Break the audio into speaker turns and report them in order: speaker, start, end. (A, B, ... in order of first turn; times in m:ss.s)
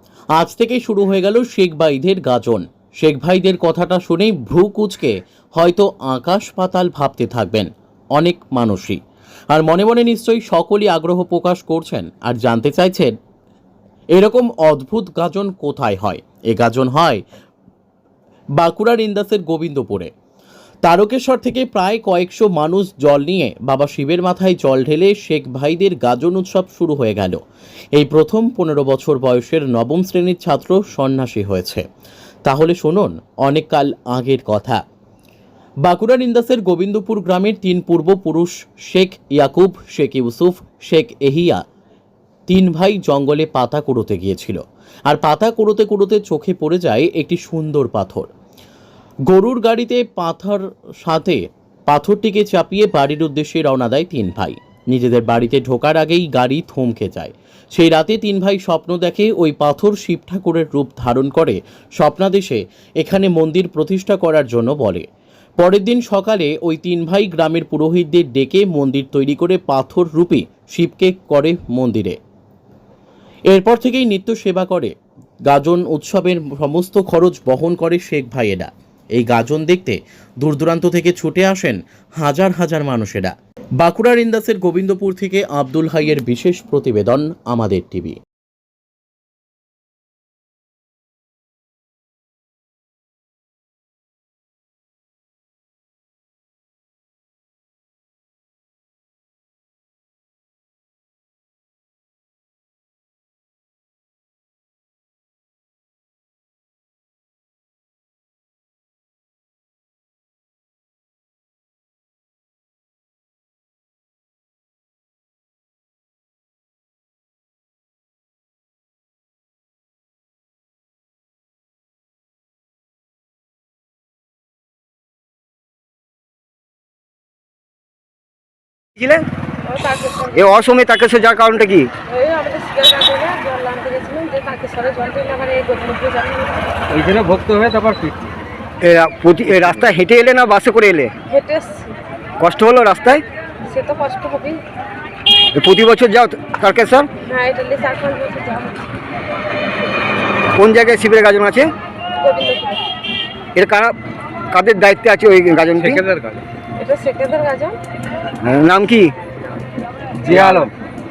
0:00.4-0:13.2 A
0:14.1-0:17.2 A
0:18.6-0:20.1 A
0:20.8-0:27.4 A
0:28.0-0:31.8 A
0:32.4-0:34.8 A
0:35.8-0:41.6 A
0:42.5-0:48.3 A
0:49.3-1:05.1 A
1:05.6-1:12.2 A
1:13.5-1:14.9 A
1:15.5-1:28.2 A
2:09.0-2:09.2 B
2:09.6-2:10.5 C
2:10.3-2:11.9 B
2:12.1-2:16.8 C
2:16.9-2:18.3 D
2:18.8-2:21.1 B
2:21.3-2:22.0 C
2:22.4-2:23.2 B
2:23.6-2:24.6 C
2:25.5-2:27.1 B
2:27.2-2:29.0 C
2:30.6-2:31.7 B
2:32.2-2:32.9 C
2:33.6-2:34.0 B
2:34.5-2:36.0 B
2:35.8-2:36.4 D
2:36.8-2:37.8 C
2:38.4-2:39.1 B
2:40.2-2:40.7 D
2:40.2-2:40.7 B